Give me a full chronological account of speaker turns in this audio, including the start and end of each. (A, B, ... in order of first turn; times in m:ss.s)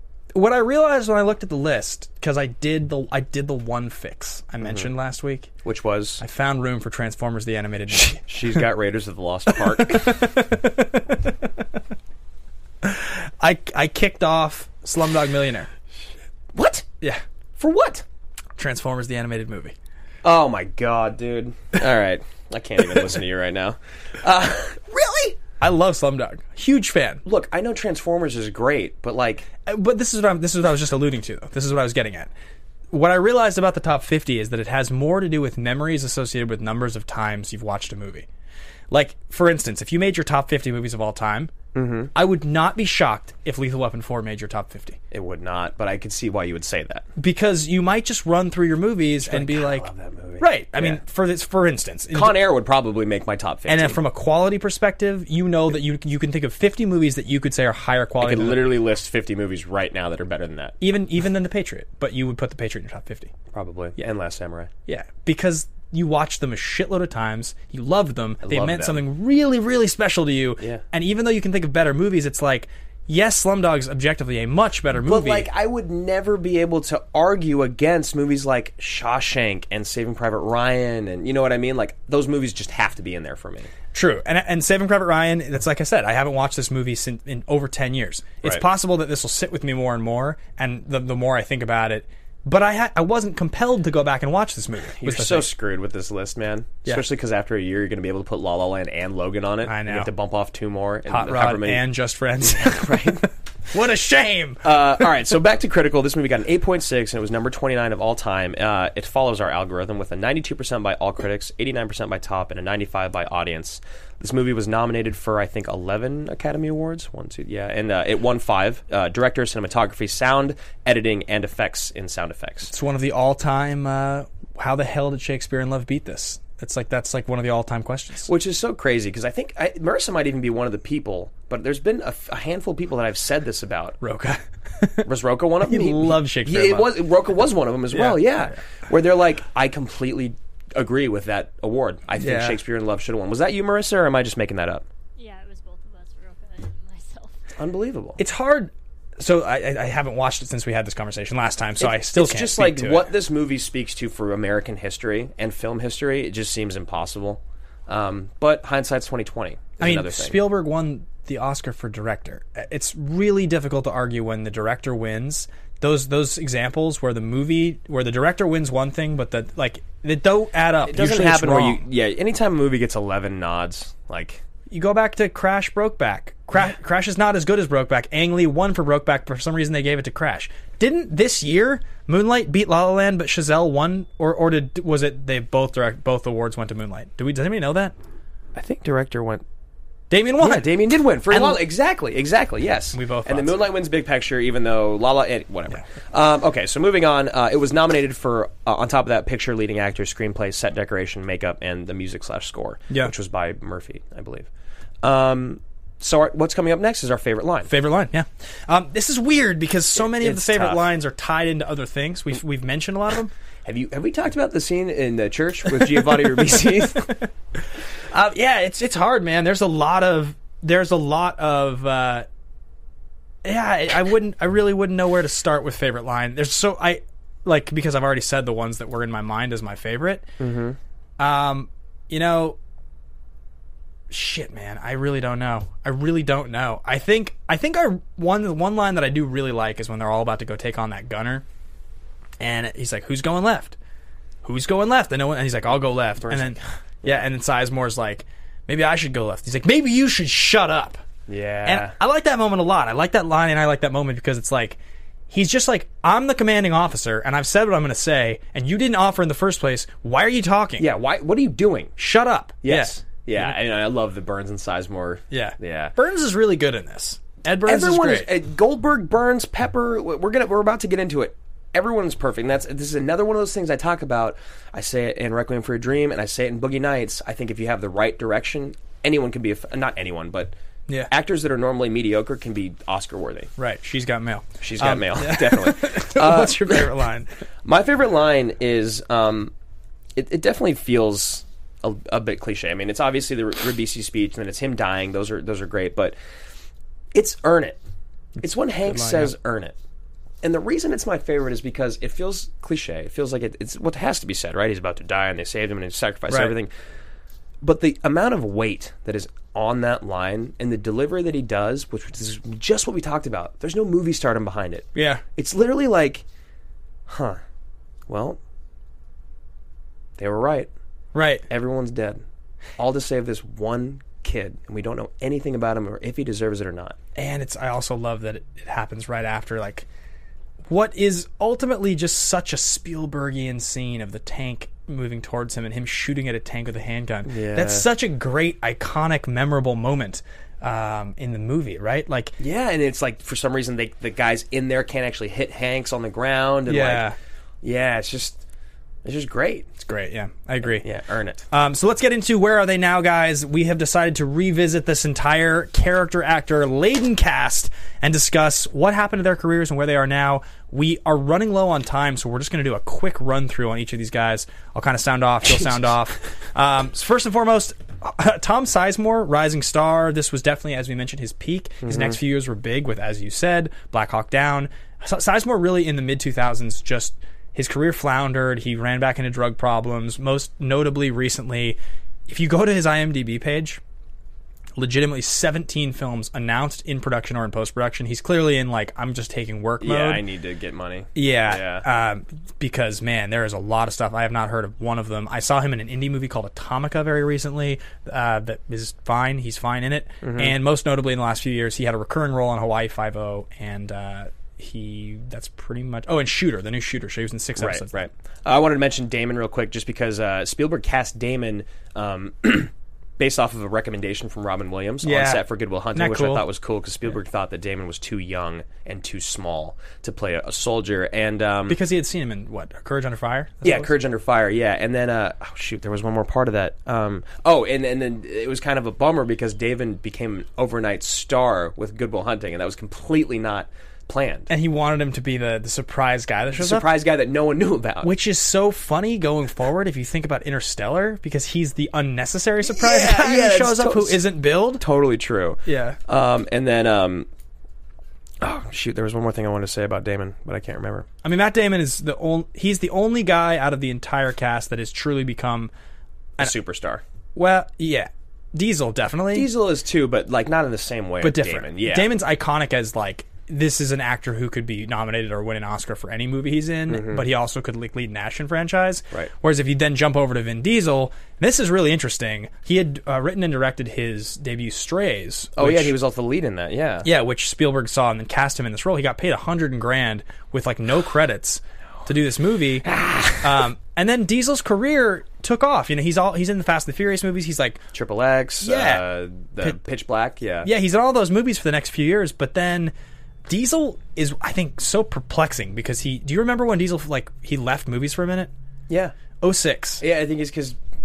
0:00.3-0:05.5 A
0:04.6-0:04.9 B
0:05.6-0:06.2 B
0:06.2-0:08.2 A
0:07.9-0:10.3 B
0:09.8-0:11.3 A
0:12.8-0:15.7 A
0:16.5-0:16.9 B
0:17.6-0:18.0 B
0:18.6-0:19.7 A
0:20.2-0:25.4 B
0:25.6-0:27.2 A
0:27.2-0:29.5 B
0:29.6-0:32.3 A
0:32.9-0:38.3 A
0:38.9-0:41.5 A
0:41.7-0:42.1 B
0:42.1-0:45.0 A
0:45.1-0:47.1 B
0:47.2-0:49.9 A
0:49.2-0:51.0 B
0:50.4-0:52.4 A
0:52.1-0:54.0 B
0:53.7-0:58.7 A
0:58.2-1:00.8 B
1:00.8-1:03.3 A
1:03.5-1:04.7 B
1:04.9-1:15.5 A
1:08.4-1:09.0 B
1:15.0-1:23.7 B
1:23.9-1:35.5 A
1:35.0-1:41.9 B
1:39.6-1:40.1 A
1:41.1-1:43.2 A
1:42.4-1:43.3 B
1:43.7-1:44.6 A
1:44.6-2:02.7 B
2:02.7-2:08.3 A
2:08.3-2:14.0 B
2:14.0-2:15.0 A
2:15.0-2:24.8 B
2:15.7-2:17.0 A
2:17.9-2:18.5 A
2:22.2-2:22.6 A
2:25.2-2:27.3 C
2:27.6-2:28.2 B
2:28.2-2:33.1 A
2:31.8-2:40.4 B
2:39.8-2:51.8 A
2:50.9-2:54.4 B
2:54.7-3:07.9 A
3:08.6-3:09.4 B
3:10.1-3:10.7 A
3:10.4-3:24.5 B
3:11.3-3:11.6 A
3:12.9-3:13.7 A
3:25.0-3:27.7 B
3:27.7-3:33.3 A
3:30.0-3:30.8 B
3:33.6-3:37.1 B
3:38.1-3:42.3 A
3:43.4-3:50.3 A
3:50.4-3:50.8 B
3:51.2-3:52.6 A
3:54.1-4:01.4 A
4:02.4-4:03.8 A
4:04.4-4:11.0 A
4:06.2-4:07.2 B
4:11.3-4:12.0 B
4:11.6-4:14.8 A
4:15.3-4:20.9 A
4:20.8-4:22.0 B
4:22.0-4:23.6 A
4:22.6-4:25.9 B
4:25.3-4:28.3 A
4:27.6-4:40.5 B
4:41.1-4:43.5 B
4:43.6-4:47.3 A
4:44.6-4:46.9 B
4:47.6-4:49.5 B
4:50.2-4:56.2 B
4:57.1-4:57.8 B
4:58.4-4:59.3 A
4:58.4-4:59.7 B
5:00.4-5:06.7 B
5:06.3-5:06.5 A
5:07.6-5:16.2 B
5:15.0-5:15.2 A
5:17.1-5:17.4 B
5:18.1-5:18.4 B
5:20.2-5:20.7 B
5:21.1-5:21.4 A
5:21.5-5:22.2 B
5:22.8-5:27.0 B
5:27.1-5:29.9 A
5:30.7-5:42.3 A
5:37.3-5:37.9 B
5:42.4-5:47.1 B
5:46.7-5:47.2 A
5:47.6-5:48.4 B
5:49.0-5:49.7 B
5:49.8-5:50.9 A
5:50.6-5:51.4 B
5:51.5-6:23.8 A
6:11.8-6:12.2 B
6:24.8-6:30.2 A
6:29.8-6:31.8 B
6:31.1-6:48.0 A
6:40.2-6:40.6 B
6:47.6-7:01.8 B
6:55.0-6:56.4 A
7:01.7-7:03.9 A
7:03.6-7:14.5 B
7:14.5-7:16.9 A
7:16.6-7:18.1 B
7:18.0-7:24.8 A
7:22.6-7:27.3 B
7:25.6-7:26.0 A
7:28.4-7:31.1 B
7:31.2-7:35.7 A
7:36.4-7:37.0 B
7:37.4-7:39.5 A
7:39.3-7:42.1 B
7:41.2-7:55.9 A
7:46.9-7:47.2 B
7:55.6-7:57.1 B
7:57.0-8:02.9 A
8:02.8-8:03.6 B
8:03.4-8:07.8 A
8:07.9-8:10.7 B
8:08.6-8:09.0 A
8:10.6-8:12.9 A
8:13.5-8:18.5 A
8:18.9-8:19.1 B
8:19.4-8:20.0 A
8:20.0-8:20.8 B